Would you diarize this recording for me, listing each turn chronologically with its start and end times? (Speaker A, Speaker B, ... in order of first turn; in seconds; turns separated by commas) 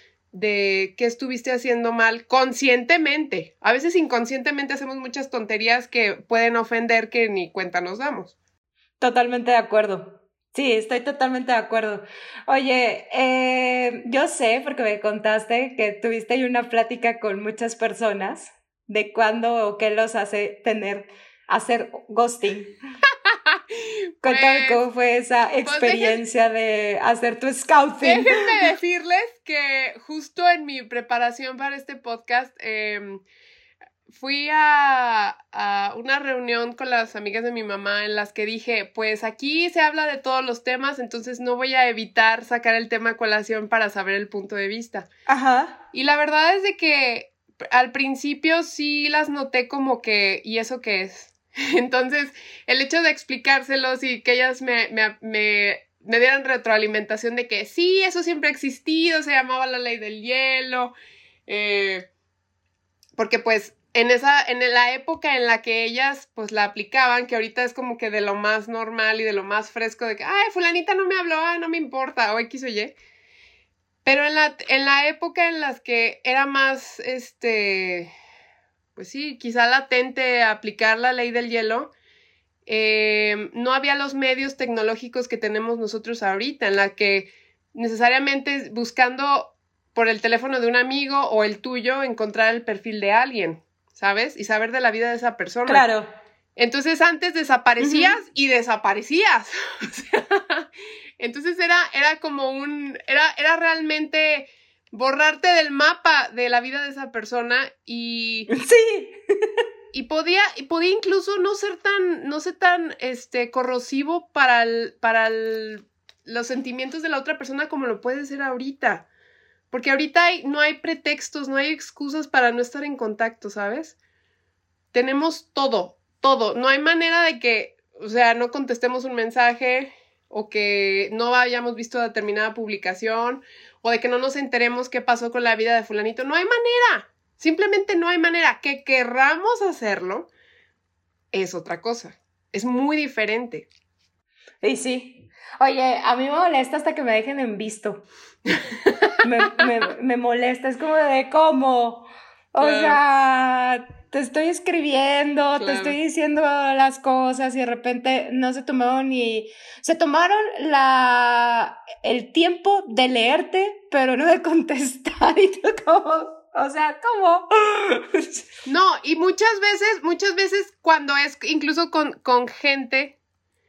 Speaker A: 0.3-8.3, Speaker B: 9.0-22.7, Speaker A: 23.2-24.8, Speaker B: 24.2-28.5, Speaker A: 25.6-26.2, Speaker A: 28.0-33.2, Speaker A: 34.1-45.1, Speaker B: 45.3-45.8, Speaker A: 45.9-61.0, Speaker A: 61.5-62.1, Speaker A: 63.2-73.0, Speaker A: 74.0-78.1, Speaker A: 79.0-81.9, Speaker A: 82.7-95.9, Speaker B: 95.7-96.1, Speaker A: 96.6-108.5, Speaker B: 97.8-98.1, Speaker B: 108.5-109.2, Speaker A: 109.9-119.1, Speaker A: 119.7-124.0, Speaker A: 124.9-140.3, Speaker A: 141.3-143.7, Speaker B: 144.6-148.1, Speaker A: 148.8-149.6, Speaker B: 149.2-168.5, Speaker A: 152.6-153.0, Speaker A: 155.6-156.0, Speaker A: 168.7-173.2